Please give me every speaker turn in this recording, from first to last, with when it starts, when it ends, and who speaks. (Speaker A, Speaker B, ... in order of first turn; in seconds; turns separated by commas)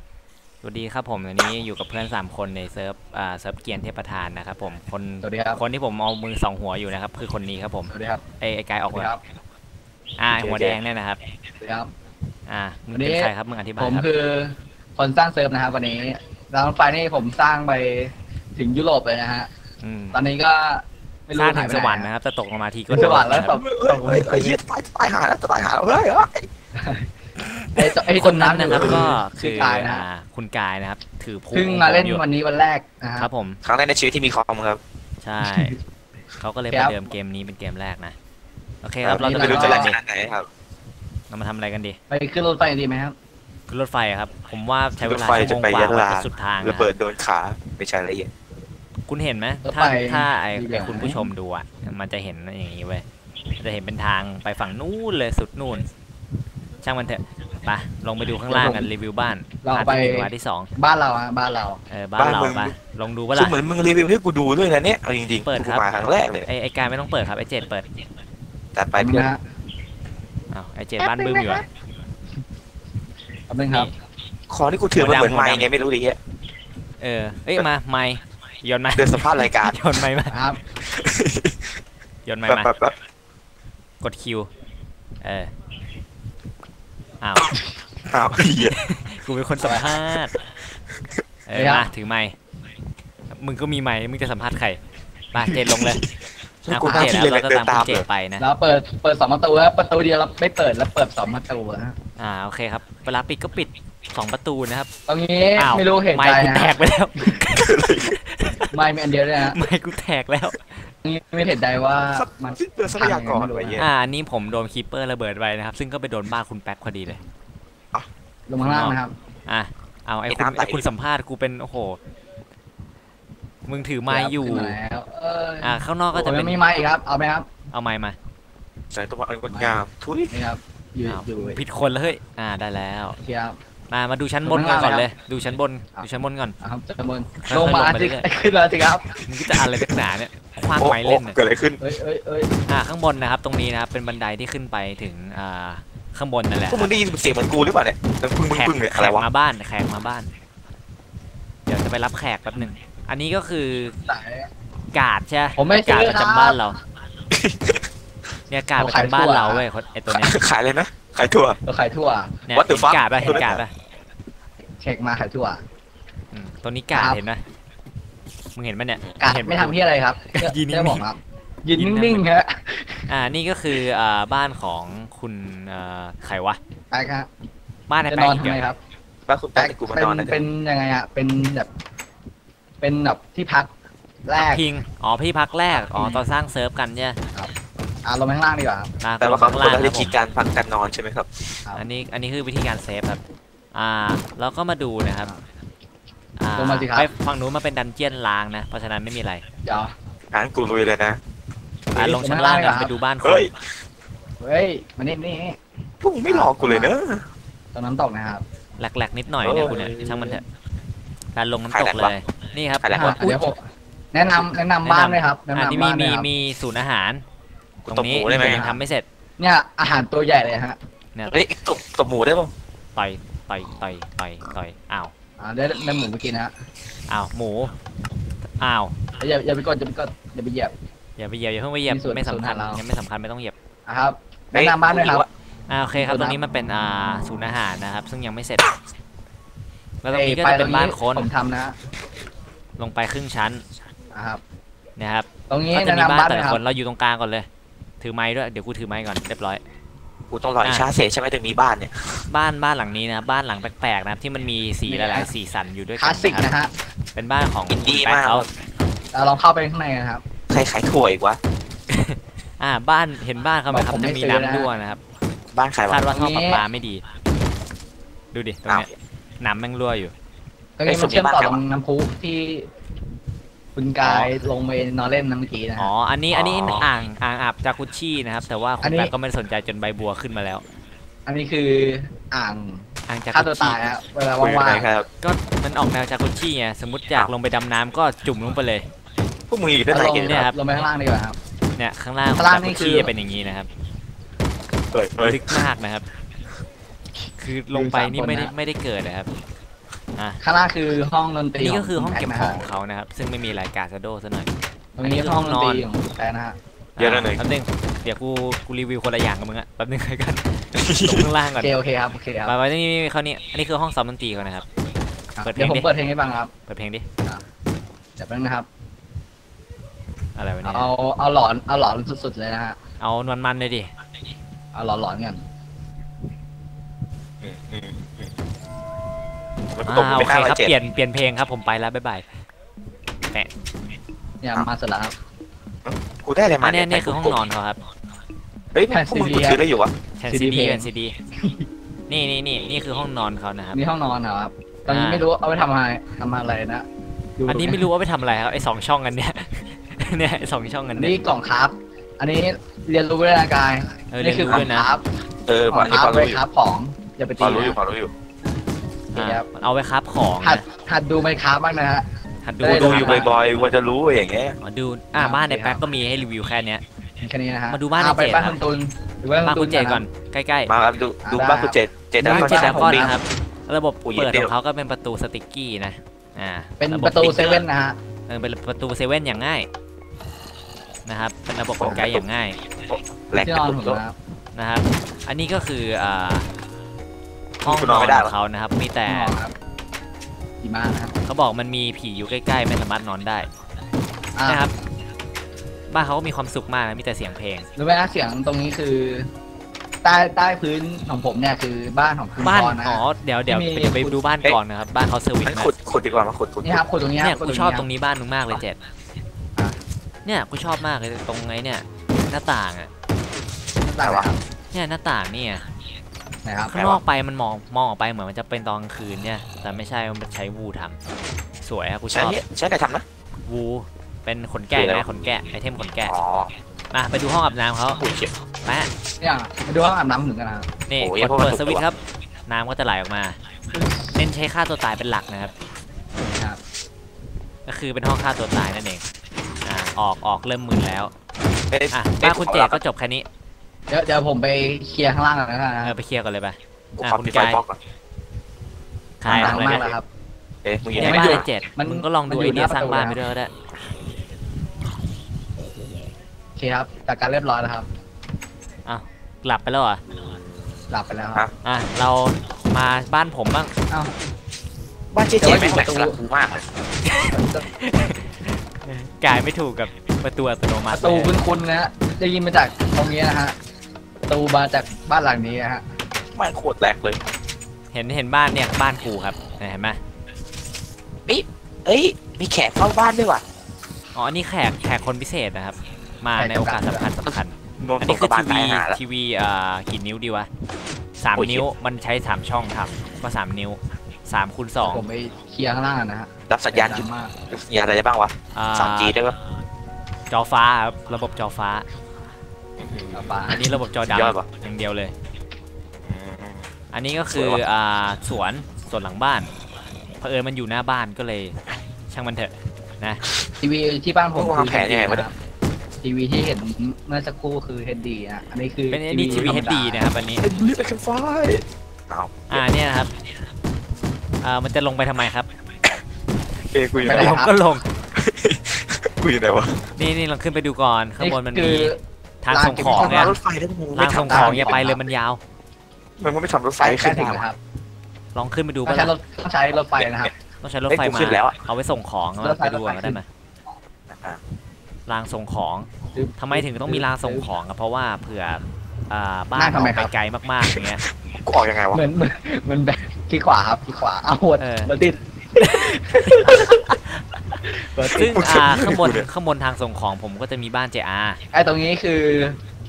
Speaker A: 0.6-9.1, Speaker B: 5.2-5.6, Speaker B: 7.9-8.2, Speaker B: 8.9-9.2, Speaker A: 10.2-11.2, Speaker C: 10.4-10.7, Speaker B: 11.6-11.9, Speaker A: 12.5-14.1, Speaker B: 12.9-19.5, Speaker A: 19.8-20.2, Speaker B: 20.1-22.1, Speaker A: 21.4-23.5, Speaker B: 22.9-24.6, Speaker C: 23.5-26.5, Speaker B: 26.8-27.1, Speaker A: 27.6-32.2, Speaker B: 27.8-30.1, Speaker B: 31.5-33.3, Speaker A: 33.2-33.6, Speaker C: 33.6-34.8, Speaker A: 35.2-35.8, Speaker B: 35.4-35.8, Speaker A: 36.4-38.1, Speaker B: 36.7-37.0, Speaker A: 38.8-39.9, Speaker C: 39.0-40.5, Speaker B: 39.2-40.0, Speaker A: 41.3-42.0, Speaker B: 42.1-43.1, Speaker A: 43.7-46.9, Speaker C: 45.0-48.3, Speaker A: 49.1-53.0, Speaker B: 49.6-51.3, Speaker A: 53.6-55.9, Speaker A: 56.8-60.7, Speaker B: 58.5-58.9, Speaker B: 59.6-61.8, Speaker A: 61.9-63.5, Speaker C: 62.2-62.7, Speaker C: 63.3-66.5, Speaker A: 65.4-67.9, Speaker C: 68.8-69.3, Speaker B: 69.0-69.4, Speaker A: 70.5-71.7, Speaker B: 71.1-71.4, Speaker B: 73.5-73.9, Speaker C: 74.5-76.2, Speaker A: 75.0-75.7, Speaker A: 77.0-80.4, Speaker C: 79.0-79.8, Speaker B: 80.3-80.6, Speaker C: 80.8-81.7, Speaker A: 82.3-82.7, Speaker C: 82.5-82.9, Speaker A: 84.0-84.5, Speaker A: 85.2-85.5, Speaker A: 87.2-87.5, Speaker C: 88.1-88.8, Speaker A: 88.4-90.3, Speaker B: 89.6-89.9, Speaker A: 91.5-92.3, Speaker B: 91.5-91.9, Speaker A: 93.3-94.8, Speaker A: 95.3-96.0, Speaker C: 95.5-96.0, Speaker C: 96.7-98.1, Speaker A: 96.7-98.5, Speaker B: 98.4-102.0, Speaker A: 102.2-104.9, Speaker B: 105.1-106.8, Speaker A: 105.6-108.7, Speaker C: 107.4-108.2, Speaker B: 108.7-109.6, Speaker A: 109.4-110.6, Speaker B: 111.0-113.8, Speaker C: 112.2-113.9, Speaker A: 113.8-117.2, Speaker B: 118.5-119.1, Speaker A: 118.6-119.0, Speaker A: 119.5-122.0, Speaker C: 120.3-120.9, Speaker A: 123.7-124.8, Speaker B: 124.1-127.5, Speaker A: 125.6-126.6, Speaker A: 127.7-128.2, Speaker C: 128.9-130.3, Speaker B: 129.5-129.8, Speaker B: 130.3-131.6, Speaker A: 131.1-133.2, Speaker B: 133.2-133.6, Speaker A: 133.9-136.6, Speaker B: 134.4-135.1, Speaker B: 136.6-139.2, Speaker A: 137.4-138.2, Speaker A: 139.2-141.4, Speaker C: 140.8-141.8, Speaker B: 141.8-142.5, Speaker A: 142.7-146.9, Speaker C: 146.7-149.2, Speaker A: 148.5-150.3, Speaker A: 151.7-153.9, Speaker B: 154.1-154.5, Speaker A: 154.9-156.8, Speaker B: 155.6-156.6, Speaker C: 157.3-157.8, Speaker A: 158.5-160.4, Speaker B: 158.8-159.7, Speaker C: 160.1-161.6, Speaker B: 161.7-162.4, Speaker A: 162.5-163.7, Speaker C: 162.5-163.6, Speaker B: 164.8-165.6, Speaker A: 166.3-167.4, Speaker B: 166.9-167.2, Speaker A: 168.6-169.8, Speaker B: 169.2-173.1, Speaker A: 170.3-171.1, Speaker A: 171.8-172.2, Speaker A: 173.1-176.6, Speaker B: 176.9-177.3, Speaker A: 177.9-178.6, Speaker B: 178.1-178.8, Speaker C: 179.3-180.4, Speaker B: 179.6-181.7, Speaker B: 182.8-183.7, Speaker B: 184.2-184.7, Speaker A: 184.4-187.2, Speaker B: 185.8-186.3, Speaker B: 188.1-188.9, Speaker A: 189.0-190.2, Speaker C: 189.2-191.6, Speaker A: 191.8-193.2, Speaker A: 193.7-195.3, Speaker A: 196.4-199.4, Speaker B: 196.6-197.1, Speaker B: 199.7-199.9, Speaker C: 200.3-201.2, Speaker A: 201.9-203.5, Speaker B: 201.9-202.9, Speaker C: 203.2-203.7, Speaker B: 204.4-205.6, Speaker C: 206.0-207.3, Speaker B: 206.3-207.0, Speaker B: 207.7-208.4, Speaker A: 208.8-210.4, Speaker C: 209.4-209.8, Speaker B: 209.7-210.4, Speaker A: 211.4-213.5, Speaker C: 211.7-212.1, Speaker C: 212.8-213.2, Speaker B: 212.9-216.3, Speaker A: 214.8-217.2, Speaker C: 217.8-218.7, Speaker A: 217.9-219.1, Speaker B: 218.3-218.8, Speaker B: 219.4-220.8, Speaker C: 221.3-222.5, Speaker A: 223.0-225.1, Speaker B: 225.4-226.5, Speaker A: 227.1-227.7, Speaker A: 228.6-228.9, Speaker B: 229.2-230.7, Speaker A: 231.2-233.5, Speaker B: 231.9-232.8, Speaker B: 233.9-235.3, Speaker C: 234.5-235.3, Speaker A: 235.7-238.7, Speaker B: 235.9-236.4, Speaker A: 240.0-241.3, Speaker B: 240.1-241.8, Speaker A: 242.8-243.6, Speaker B: 244.1-244.4, Speaker A: 245.0-247.5, Speaker B: 245.5-246.6, Speaker A: 248.0-249.6, Speaker C: 250.3-252.3, Speaker A: 252.3-256.5, Speaker B: 254.9-255.3, Speaker B: 256.0-256.7, Speaker A: 257.1-258.5, Speaker C: 257.7-258.5, Speaker B: 259.1-260.2, Speaker C: 260.5-261.4, Speaker A: 261.9-265.0, Speaker B: 263.7-264.7, Speaker C: 265.5-266.1, Speaker A: 265.9-267.0, Speaker B: 266.1-266.6, Speaker A: 268.3-268.9, Speaker A: 269.4-270.1, Speaker B: 270.8-272.7, Speaker C: 270.9-271.6, Speaker B: 273.8-275.9, Speaker A: 274.0-274.3, Speaker A: 275.8-280.6, Speaker C: 276.3-276.9, Speaker B: 278.8-279.1, Speaker B: 281.3-284.9, Speaker A: 283.1-283.8, Speaker C: 284.4-285.1, Speaker A: 285.2-288.9, Speaker C: 289.5-290.4, Speaker B: 289.9-291.4, Speaker A: 289.9-290.6, Speaker A: 291.8-293.7, Speaker B: 292.4-293.1, Speaker C: 294.9-295.6, Speaker A: 295.2-296.1, Speaker A: 297.4-299.3, Speaker B: 297.7-298.5, Speaker B: 300.4-302.6, Speaker A: 301.6-304.5, Speaker B: 305.0-306.6, Speaker A: 305.0-305.9, Speaker A: 307.0-311.7, Speaker C: 307.0-307.4, Speaker C: 310.8-311.3, Speaker B: 311.6-312.5, Speaker A: 312.5-314.7, Speaker B: 315.4-316.5, Speaker A: 315.4-315.9, Speaker A: 316.7-317.1, Speaker B: 318.2-318.7, Speaker A: 320.4-320.9, Speaker B: 320.6-322.8, Speaker A: 323.0-323.9, Speaker B: 324.8-325.4, Speaker C: 327.4-328.3, Speaker C: 329.7-330.7, Speaker A: 329.9-332.2, Speaker B: 334.4-335.2, Speaker C: 335.9-337.4, Speaker A: 336.6-337.8, Speaker C: 338.7-339.9, Speaker B: 338.9-339.6, Speaker A: 340.2-341.1, Speaker B: 340.3-341.7, Speaker A: 342.1-343.8, Speaker B: 343.7-346.9, Speaker A: 344.9-345.3, Speaker B: 347.4-347.9, Speaker A: 347.5-351.2, Speaker B: 351.0-355.1, Speaker A: 354.1-354.9, Speaker C: 355.5-356.4, Speaker B: 355.7-357.8, Speaker C: 357.4-358.1, Speaker A: 359.1-360.6, Speaker B: 359.1-359.5, Speaker B: 360.4-362.1, Speaker A: 362.4-363.4, Speaker B: 362.6-363.3, Speaker C: 362.7-364.6, Speaker A: 364.6-366.8, Speaker B: 365.2-365.8, Speaker B: 367.2-370.1, Speaker A: 367.7-368.6, Speaker A: 369.4-370.7, Speaker C: 370.7-373.1, Speaker B: 371.2-373.2, Speaker A: 372.2-377.6, Speaker C: 374.1-374.5, Speaker B: 376.8-378.0, Speaker A: 378.3-379.7, Speaker A: 381.1-382.6, Speaker C: 381.8-382.2, Speaker C: 382.9-384.0, Speaker B: 383.4-384.1, Speaker A: 384.6-386.5, Speaker A: 387.6-389.4, Speaker C: 387.6-388.3, Speaker B: 389.1-389.5, Speaker B: 390.6-391.1, Speaker A: 391.2-393.5, Speaker B: 394.4-394.6, Speaker A: 394.5-394.7, Speaker A: 395.9-397.7, Speaker B: 397.8-399.3, Speaker B: 400.0-404.2, Speaker A: 402.4-405.7, Speaker C: 405.4-406.8, Speaker B: 406.6-407.9, Speaker A: 407.2-408.8, Speaker A: 410.3-412.9, Speaker B: 413.8-414.4, Speaker C: 414.0-414.3, Speaker A: 414.7-415.6, Speaker B: 416.4-417.0, Speaker A: 416.7-421.0, Speaker A: 421.6-422.4, Speaker C: 422.1-423.1, Speaker A: 423.5-426.1, Speaker C: 424.7-425.1, Speaker C: 426.1-426.5, Speaker A: 426.9-428.0, Speaker C: 428.0-428.3, Speaker A: 428.6-428.9, Speaker B: 429.2-430.7, Speaker A: 430.9-433.4, Speaker C: 431.0-431.8, Speaker B: 433.7-434.2, Speaker A: 434.2-435.5, Speaker B: 436.3-436.6, Speaker A: 437.7-439.0, Speaker A: 439.6-441.1, Speaker C: 441.7-442.8, Speaker A: 441.9-443.3, Speaker B: 443.9-446.0, Speaker A: 445.8-447.6, Speaker C: 447.0-447.8, Speaker A: 449.2-449.9, Speaker C: 449.2-449.9, Speaker B: 449.3-450.1, Speaker C: 450.6-451.4, Speaker A: 451.0-453.5, Speaker B: 451.0-453.2, Speaker B: 456.6-457.9, Speaker A: 458.9-460.0, Speaker B: 460.9-461.4, Speaker A: 461.6-463.7, Speaker C: 465.1-466.6, Speaker B: 465.4-466.2, Speaker A: 467.1-471.4, Speaker B: 467.3-467.7, Speaker B: 470.9-473.6, Speaker B: 474.3-475.8, Speaker C: 476.4-477.2, Speaker A: 477.9-480.0, Speaker C: 481.3-483.4, Speaker A: 484.1-490.5, Speaker B: 486.4-487.1, Speaker C: 487.8-489.0, Speaker A: 491.2-495.0, Speaker C: 491.4-491.6, Speaker B: 494.8-497.3, Speaker C: 496.5-499.4, Speaker A: 498.5-499.1, Speaker A: 500.3-501.9, Speaker C: 502.8-503.2, Speaker B: 503.1-503.6, Speaker A: 503.5-505.1, Speaker C: 504.1-504.5, Speaker C: 506.0-506.7, Speaker A: 506.9-509.5, Speaker C: 507.3-507.6, Speaker A: 510.2-511.6, Speaker A: 512.1-513.2, Speaker B: 513.6-515.3, Speaker C: 514.4-515.3, Speaker B: 516.0-520.1, Speaker A: 518.9-520.5, Speaker C: 520.4-522.6, Speaker A: 522.5-523.1, Speaker A: 524.4-525.5, Speaker C: 526.7-527.4, Speaker B: 527.0-527.5, Speaker A: 527.0-527.9, Speaker C: 528.1-529.9, Speaker A: 530.0-533.4, Speaker B: 531.2-532.0, Speaker B: 532.5-533.4, Speaker C: 532.8-534.8, Speaker A: 534.0-535.4, Speaker B: 534.2-535.0, Speaker C: 536.2-537.5, Speaker B: 536.8-537.6, Speaker A: 538.4-539.1, Speaker B: 538.9-540.3, Speaker A: 540.6-543.2, Speaker C: 540.9-541.6, Speaker B: 542.4-543.2, Speaker C: 544.1-544.4, Speaker A: 545.1-551.0, Speaker B: 546.1-547.5, Speaker B: 549.5-550.1, Speaker C: 550.6-552.0, Speaker B: 551.9-556.9, Speaker A: 554.6-554.9, Speaker A: 555.6-557.6, Speaker B: 557.7-558.6, Speaker A: 558.1-561.4, Speaker C: 558.2-559.3, Speaker B: 561.5-562.6